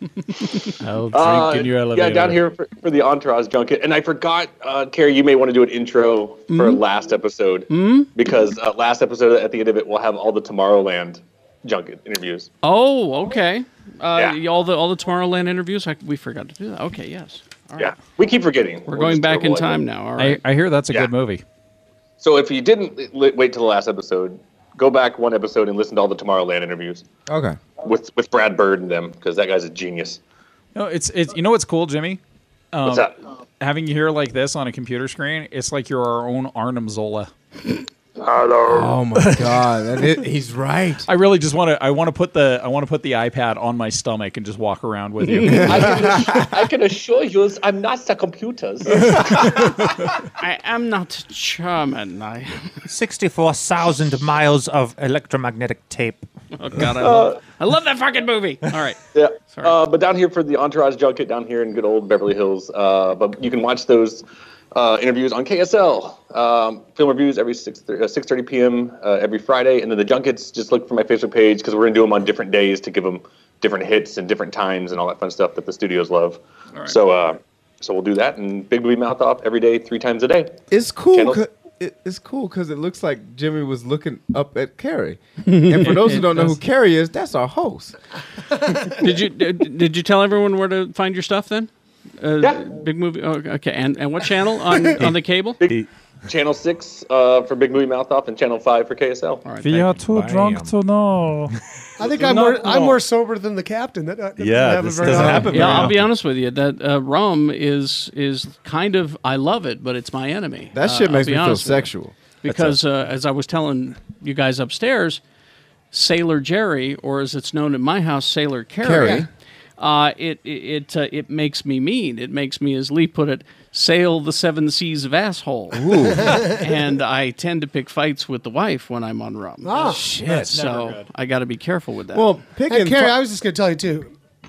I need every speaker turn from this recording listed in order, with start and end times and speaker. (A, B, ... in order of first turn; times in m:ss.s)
0:00.8-0:01.8 A
0:01.1-0:12.5 B
0:01.5-0:02.4 C
0:06.5-0:06.8 A
0:07.7-0:08.1 A
0:12.6-0:17.9 A
0:17.8-0:19.8 B
0:18.9-0:20.4 A
0:20.2-0:21.4 D
0:22.2-0:27.0 B
0:27.3-0:27.6 E
0:27.8-0:30.2 B
0:30.7-0:32.2 D
0:32.7-0:37.3 D
0:32.8-0:33.1 B
0:38.2-0:38.9 B
0:38.7-0:41.0 E
0:41.0-0:46.0 D
0:45.2-0:45.6 A
0:45.4-0:46.5 E
0:45.6-0:49.4 B
0:50.4-0:52.8 A
0:52.9-0:56.2 C
0:56.6-0:59.8 A
0:57.0-0:57.4 B
0:59.1-1:20.5 B
1:20.7-1:27.9 E
1:21.1-1:21.4 B
1:25.4-1:26.6 A
1:29.0-1:35.6 A
1:32.4-1:32.7 B
1:35.0-1:35.9 C
1:35.6-1:39.4 B
1:39.4-1:39.9 A
1:39.6-1:41.5 D
1:39.9-1:40.8 C
1:42.0-1:45.9 F
1:42.2-1:43.0 B
1:44.4-1:46.1 C
1:45.0-1:45.5 E
1:45.4-1:51.9 A
1:50.7-1:52.2 E
1:52.4-1:55.2 A
1:55.9-2:06.0 A
1:58.8-1:59.3 E
2:05.7-2:06.4 E
2:06.2-2:06.6 F
2:06.5-2:12.3 A
2:09.6-2:10.1 F
2:09.8-2:10.6 E
2:10.5-2:11.0 D
2:12.1-2:13.2 E
2:12.7-2:14.1 F